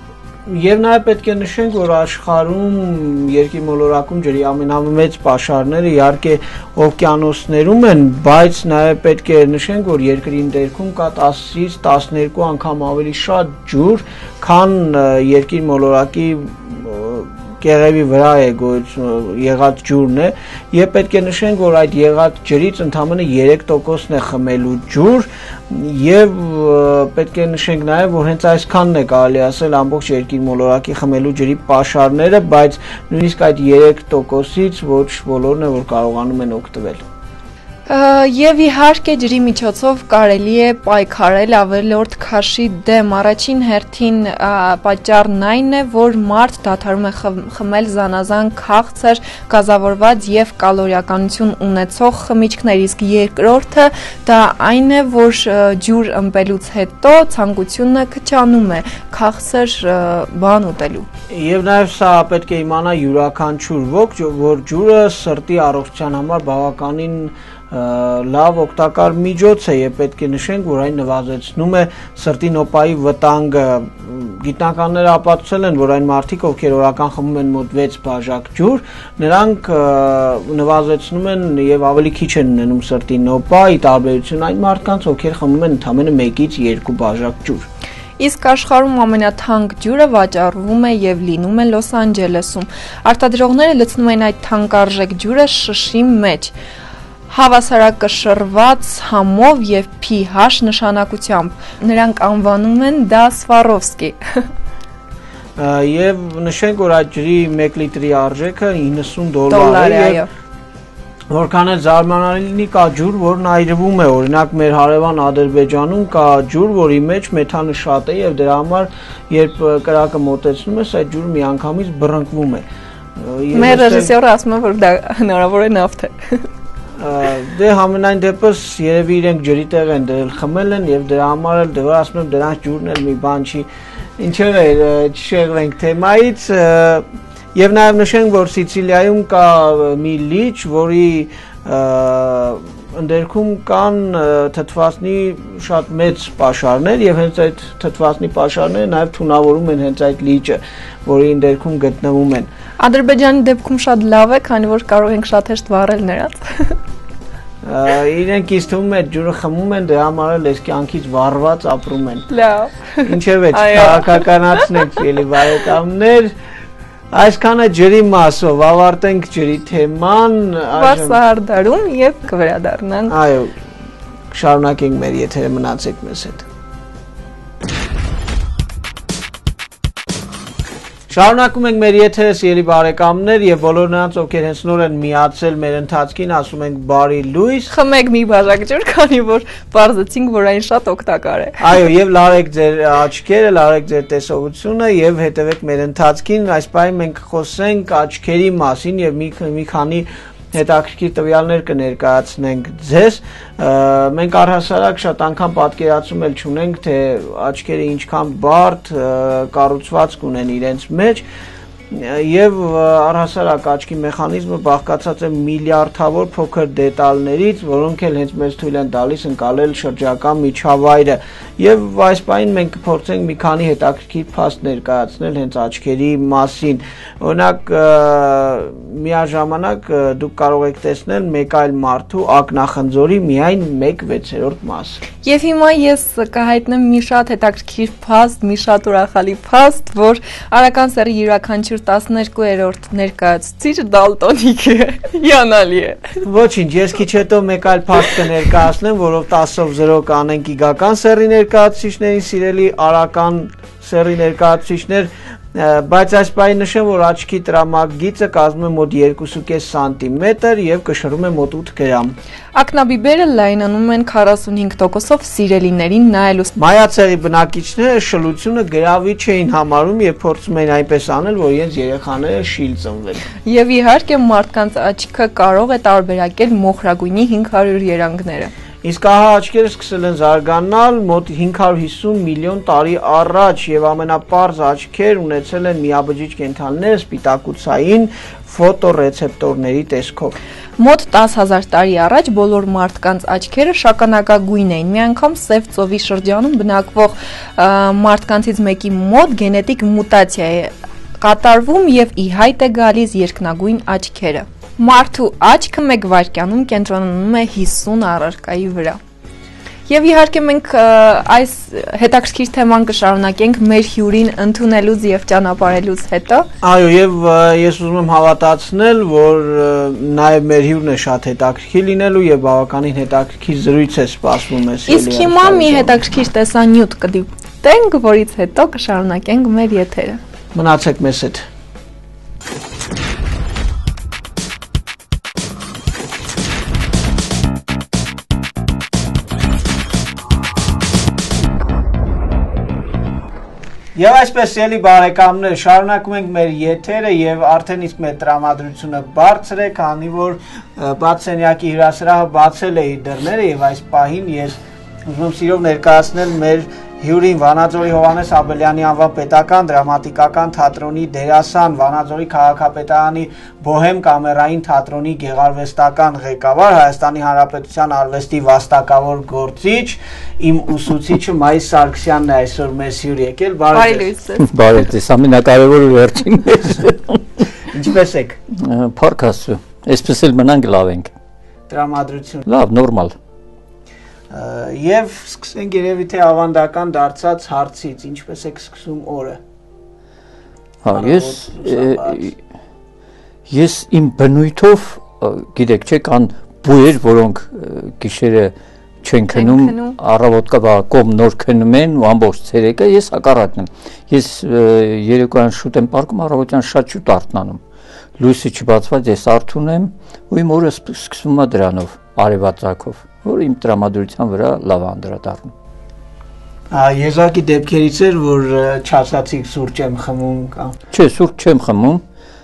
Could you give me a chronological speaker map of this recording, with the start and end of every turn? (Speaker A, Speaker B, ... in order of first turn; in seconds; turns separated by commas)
Speaker A: 0.5-37.0, Speaker B: 37.9-61.1, Speaker A: 61.3-87.7, Speaker B: 88.2-96.5, Speaker B: 97.3-104.5, Speaker A: 105.6-110.2, Speaker B: 109.5-110.3, Speaker A: 111.3-122.7, Speaker A: 123.2-124.1, Speaker B: 123.5-126.5, Speaker A: 127.0-152.5, Speaker B: 152.8-156.8, Speaker A: 157.6-162.3, Speaker B: 162.3-164.7, Speaker A: 163.0-166.3, Speaker A: 167.1-171.2, Speaker B: 170.8-173.2, Speaker A: 173.1-173.6, Speaker A: 174.3-176.5, Speaker A: 181.1-187.7, Speaker B: 187.7-191.6, Speaker A: 191.6-211.2, Speaker A: 211.9-235.0, Speaker B: 235.2-246.2, Speaker A: 246.2-262.1, Speaker B: 262.6-266.5, Speaker A: 266.6-273.2, Speaker B: 273.4-278.5, Speaker A: 278.8-290.4, Speaker B: 290.8-309.0, Speaker B: 309.9-316.5, Speaker A: 316.6-326.0, Speaker B: 324.9-330.2, Speaker A: 330.6-331.4, Speaker A: 343.9-374.1, Speaker B: 373.7-374.5, Speaker C: 374.4-377.5, Speaker A: 377.7-378.4, Speaker C: 378.5-381.1, Speaker A: 381.7-382.5, Speaker C: 382.5-383.2, Speaker A: 384.3-389.4, Speaker C: 390.8-392.4, Speaker A: 390.9-392.3, Speaker C: 393.5-407.6, Speaker B: 399.3-400.0, Speaker C: 408.2-415.5, Speaker A: 416.7-420.8, Speaker C: 420.9-422.0